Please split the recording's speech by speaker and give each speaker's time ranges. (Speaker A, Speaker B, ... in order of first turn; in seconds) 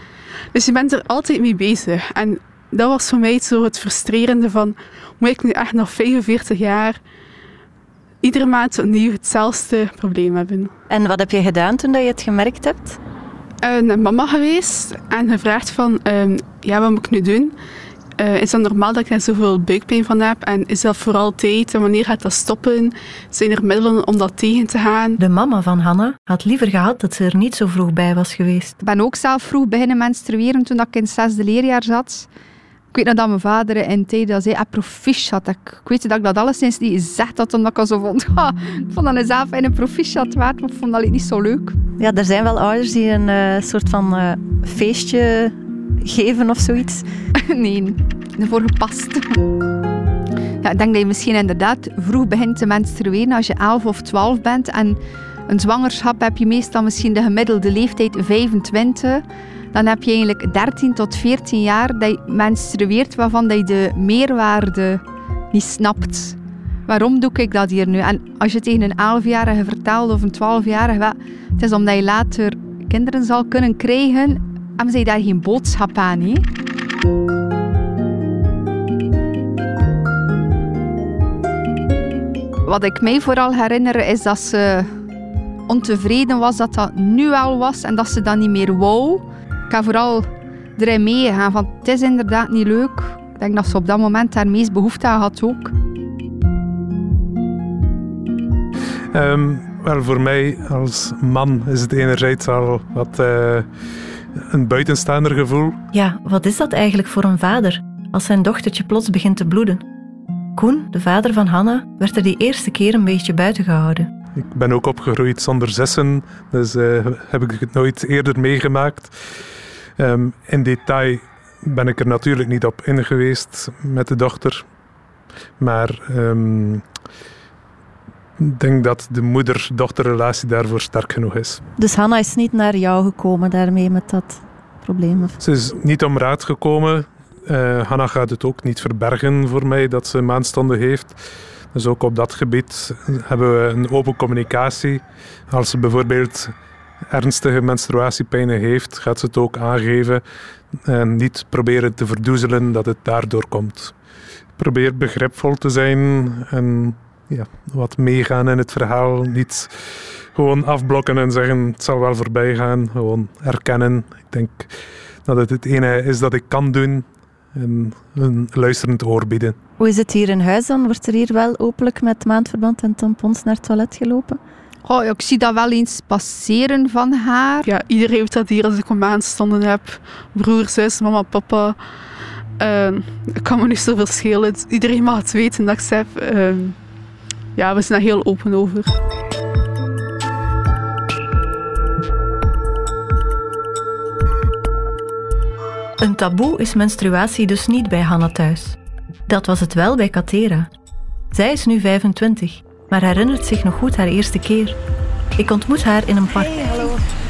Speaker A: 0.5-7.0, 8.2-10.7, 13.6-17.6, 18.2-25.2, 177.7-181.8, 182.6-186.8, 187.6-188.9
Speaker B: 10.9-13.0, 25.2-28.8, 42.0-47.1, 105.9-109.8, 110.6-114.1, 131.8-135.4, 169.8-174.4, 196.0-198.8, 199.3-200.7, 201.3-204.8, 205.4-206.6
Speaker C: 28.8-32.3, 32.9-41.8, 47.4-49.4, 50.6-76.5, 82.7-84.9, 85.7-95.7, 174.8-177.7, 206.5-207.0
Speaker D: 99.1-103.7, 104.4-105.8, 114.4-119.1, 120.0-124.7, 125.6-126.9, 128.4-131.6, 135.4-141.2, 141.7-146.5, 147.1-150.2, 150.8-153.9, 154.6-159.8, 160.3-164.7, 165.2-169.6